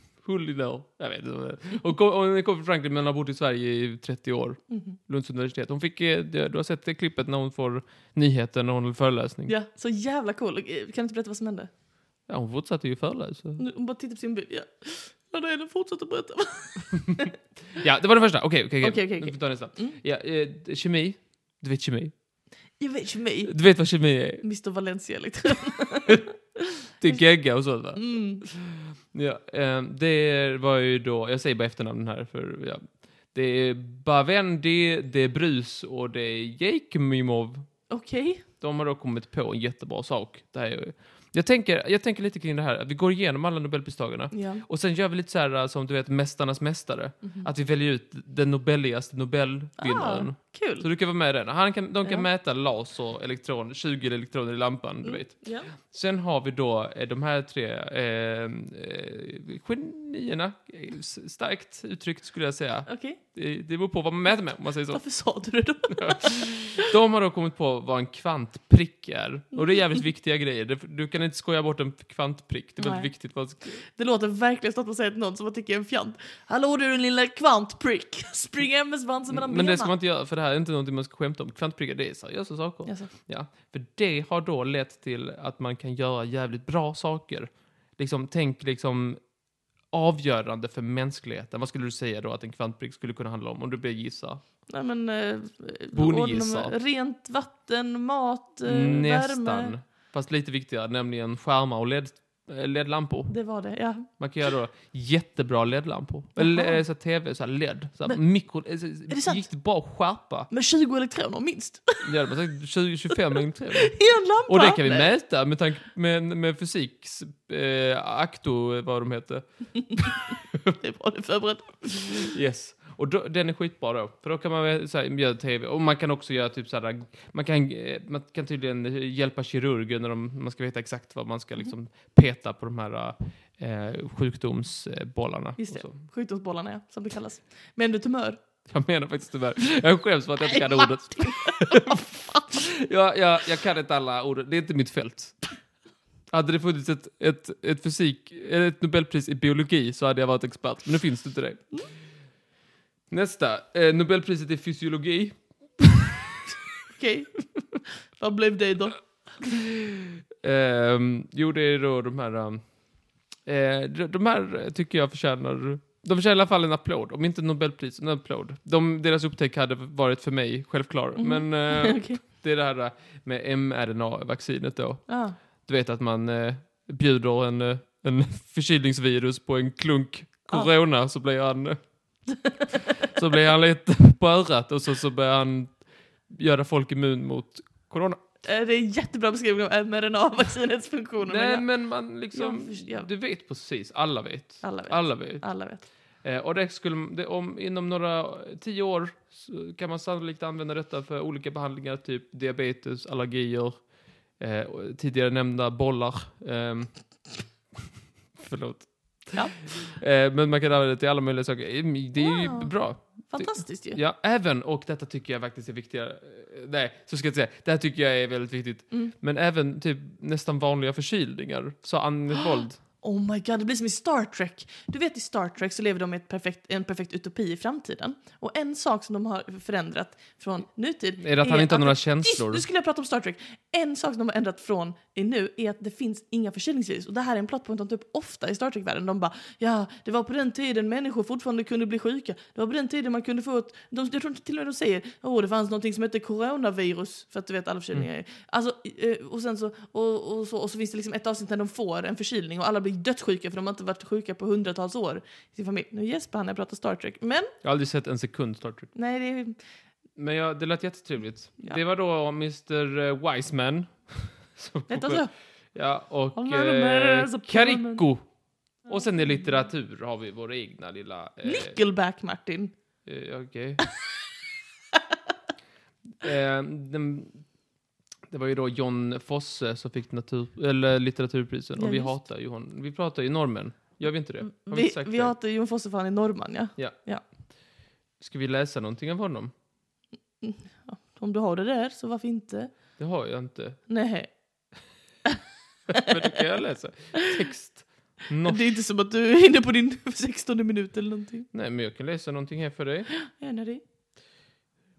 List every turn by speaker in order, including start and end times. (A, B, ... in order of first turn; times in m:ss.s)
0:00.2-0:09.5 A
0:04.7-0:05.0 B
0:09.5-0:11.7 B
0:12.3-0:13.6 A
0:13.6-0:17.4 B
0:17.7-0:22.1 A
0:18.8-0:20.0 B
0:22.8-0:23.5 B
0:23.4-0:24.4 A
0:24.4-0:27.2 B
0:27.0-0:37.7 A
0:28.0-0:28.4 B
0:37.9-0:38.4 B
0:38.6-1:05.0 A
0:44.3-0:44.6 B
0:47.2-0:47.5 B
0:49.8-0:50.8 B
0:55.0-0:55.7 B
1:02.9-1:03.2 B
1:04.9-1:06.9 B
1:05.9-1:13.8 A
1:12.8-1:13.1 B
1:13.8-1:19.9 B
1:19.3-1:29.2 A
1:22.8-1:23.1 B
1:29.9-1:34.4 A
1:34.7-1:39.7 B
1:35.9-1:36.7 A
1:38.6-1:43.3 A
1:43.3-1:44.1 B
1:44.2-1:50.5 A
1:46.4-1:46.8 B
1:49.1-1:49.5 B
1:50.5-1:52.1 B
1:52.0-1:59.4 A
1:53.7-1:55.1 B
1:59.8-2:00.2 B
2:00.0-2:00.8 A
2:00.8-2:02.3 B
2:02.1-2:16.0 A
2:15.6-2:18.4 B
2:18.7-2:25.4 A
2:20.5-2:22.2 B
2:26.3-2:31.8 A
2:33.1-2:36.3 A
2:36.9-2:39.0 B
2:39.4-2:42.8 A
2:43.4-3:01.8 A
2:51.2-2:52.2 B
2:55.1-2:55.4 B
3:02.3-3:03.1 B
3:03.0-3:08.2 A
3:08.4-3:11.7 B
3:11.2-3:15.5 A
3:12.3-3:13.1 B
3:14.6-3:15.8 B
3:16.2-3:23.8 A
3:24.4-3:27.0 A
3:28.4-3:42.8 A
3:32.2-3:34.0 B
3:43.0-4:17.5 B
3:51.2-3:52.6 A
4:17.6-4:18.9 A
4:18.9-4:19.6 B
4:20.2-4:28.2 A
4:24.9-4:25.3 B
4:26.4-4:28.0 B
4:28.8-4:31.8 A
4:31.4-4:32.7 B
4:33.0-4:33.8 A
4:36.2-4:37.4 A
4:38.3-4:45.3 A
4:41.8-4:42.2 B
4:44.4-4:47.2 B
4:48.2-4:49.5 A
4:50.4-4:52.7 B
4:53.0-4:53.8 A
4:53.9-4:54.3 B
4:55.9-4:58.7 A
4:58.4-5:01.5 B
5:01.5-5:03.1 A
5:03.1-5:03.8 B